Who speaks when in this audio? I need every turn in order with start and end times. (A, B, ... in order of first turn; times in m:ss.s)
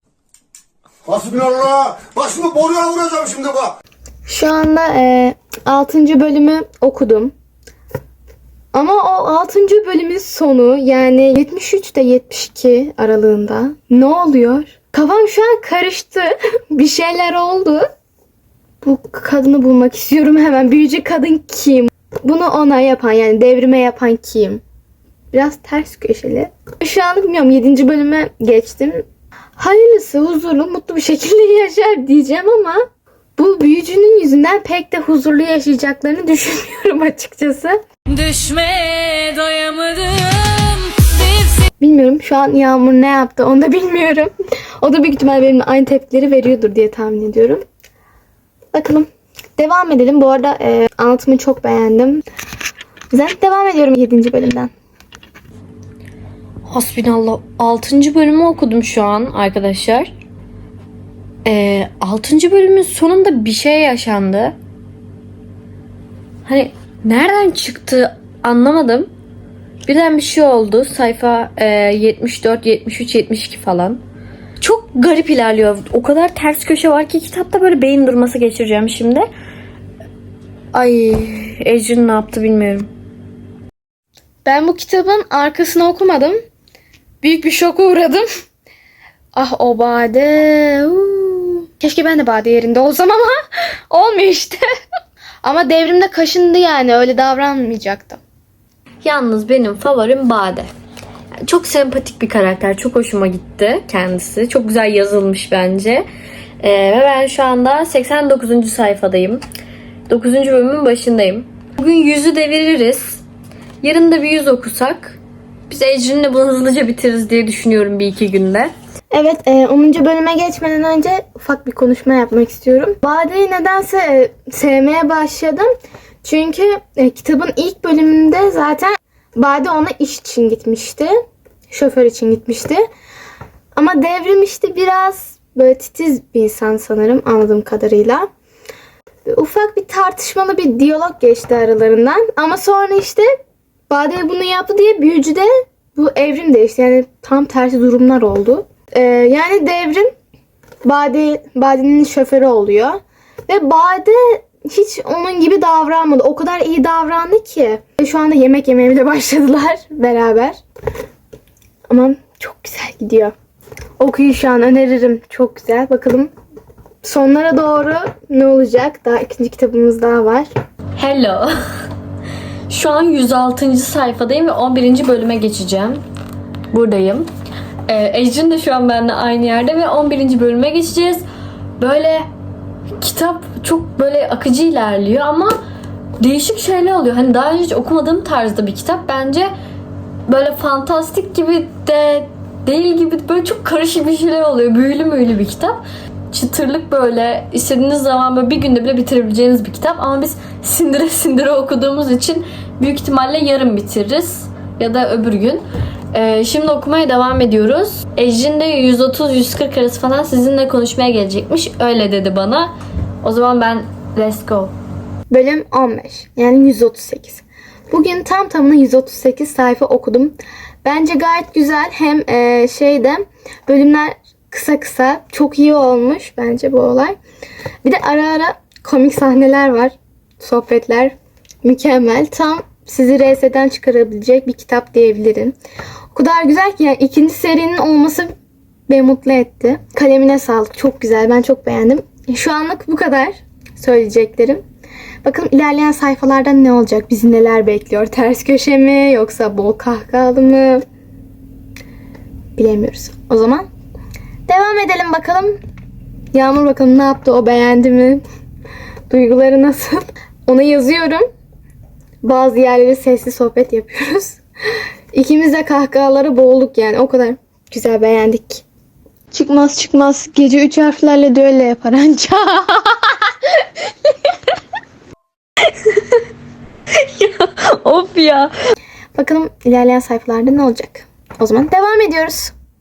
0:01.1-0:03.7 A
0:04.3-0:07.3 B
0:08.7-0:17.9 B
0:18.8-0:24.6 B
0:25.3-0:29.0 B
0:29.6-0:32.8 B
0:33.4-0:37.8 B
0:38.2-0:41.2 C
0:41.8-0:47.6 B
0:48.7-0:52.2 B
0:53.1-0:54.7 B
0:56.6-1:00.1 C
1:01.4-1:04.6 C
1:06.4-1:09.1 C
1:09.8-1:14.0 C
1:14.6-1:19.3 C
1:20.7-1:22.9 C
1:24.4-1:26.4 B
1:27.2-1:28.2 B
1:29.3-1:33.4 B
1:33.9-1:34.6 B
1:35.4-1:38.2 B
1:39.0-1:40.7 C
1:41.4-1:46.0 C
1:46.6-1:49.4 C
1:50.1-1:53.2 C
1:53.8-1:55.2 C
1:55.7-1:58.7 C
1:59.1-2:05.7 B
2:06.2-2:11.1 B
2:11.7-2:12.8 B
2:13.7-2:18.3 B
2:19.2-2:23.3 B
2:23.9-2:30.1 B
2:30.8-2:40.6 B
2:41.9-2:43.3 B
2:44.0-2:46.3 B
2:47.0-2:50.5 B
2:51.0-2:51.5 C
2:52.7-2:56.0 C
2:56.7-2:57.3 C
2:57.9-3:01.2 C
3:01.8-3:02.2 C
3:03.0-3:05.6 C
3:06.2-3:09.5 C
3:10.3-3:32.7 C
3:33.2-3:34.7 C
3:35.3-3:47.2 B
3:47.8-3:55.6 B
3:56.1-3:58.3 B
3:58.9-4:04.6 B
4:05.2-4:10.8 B
4:12.6-4:13.7 B
4:14.5-4:15.6 B
4:16.3-4:18.2 B
4:19.1-4:21.2 B
4:22.2-4:24.4 B
4:25.1-4:28.6 B
4:29.3-4:33.6 B
4:36.9-4:38.5 C
4:39.1-4:42.5 B